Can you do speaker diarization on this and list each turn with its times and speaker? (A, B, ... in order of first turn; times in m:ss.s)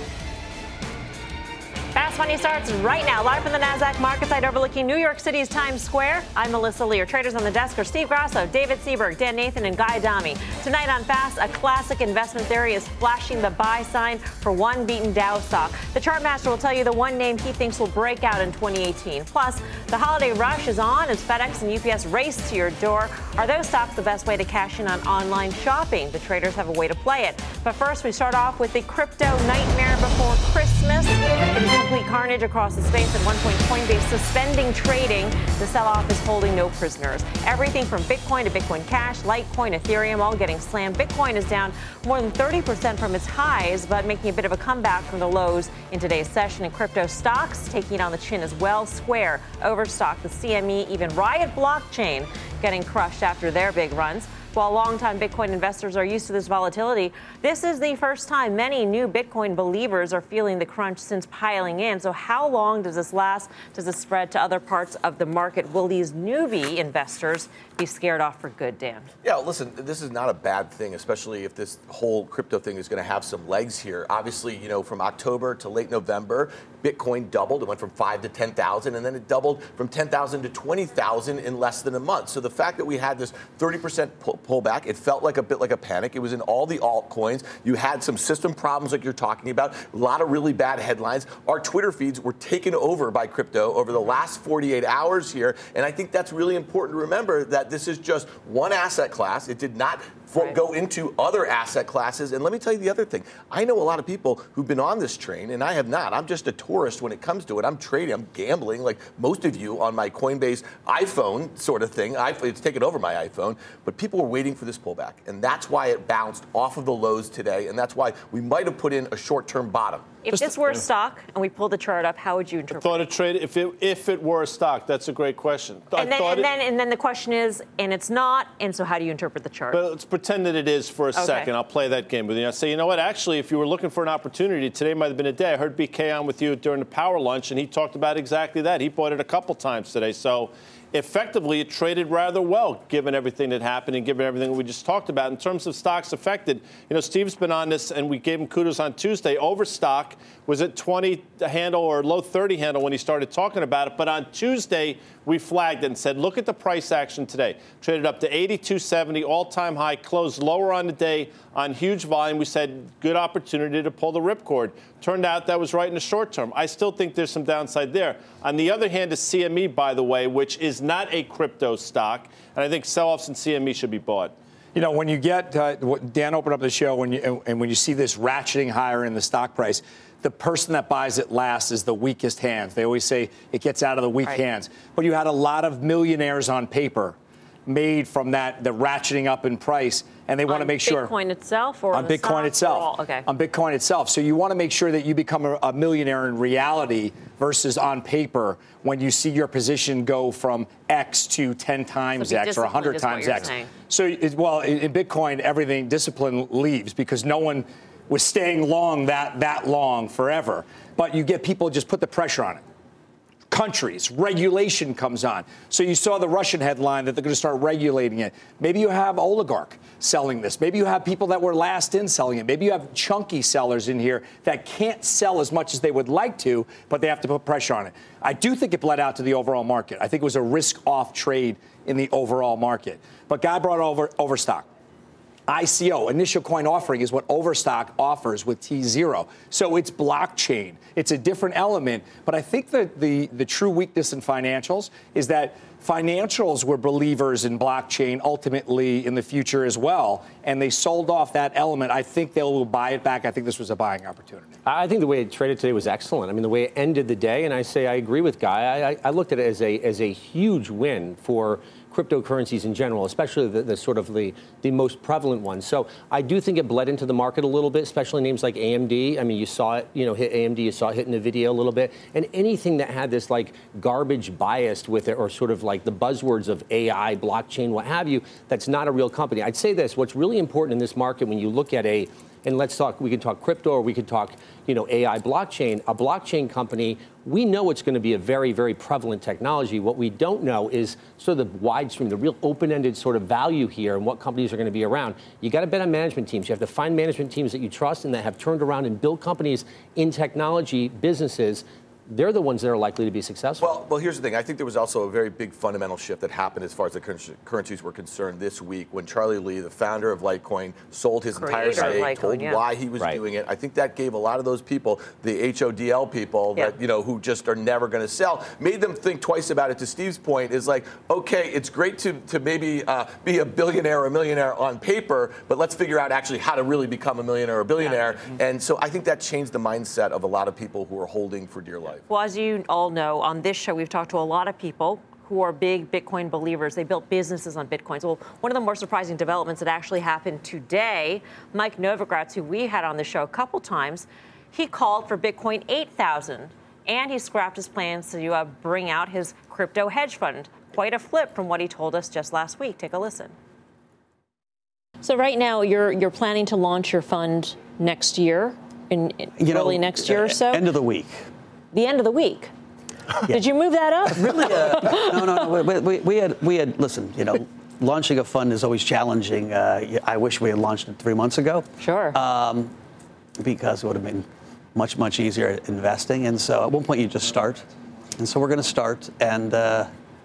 0:02.0-1:09.1 A
1:09.2-2:00.2 B
2:00.2-2:03.1 A
2:02.7-2:06.5 C
2:06.0-2:09.8 A
2:09.7-2:54.4 C
2:11.2-2:11.5 A
2:54.8-3:11.1 D
3:10.5-3:13.3 A
3:11.9-3:32.6 D
3:22.2-3:23.7 A
3:33.5-3:54.7 D
3:55.5-4:14.5 D
4:14.7-5:03.7 E
5:03.6-5:32.0 B
5:11.4-5:12.6 A
5:32.1-5:53.4 A
5:55.0-6:00.7 A
5:59.4-6:01.2 F
6:01.7-6:02.5 A
6:03.3-6:05.4 A
6:04.1-6:12.7 F
6:11.8-6:12.2 A
6:13.4-6:17.6 F
6:18.2-6:19.9 F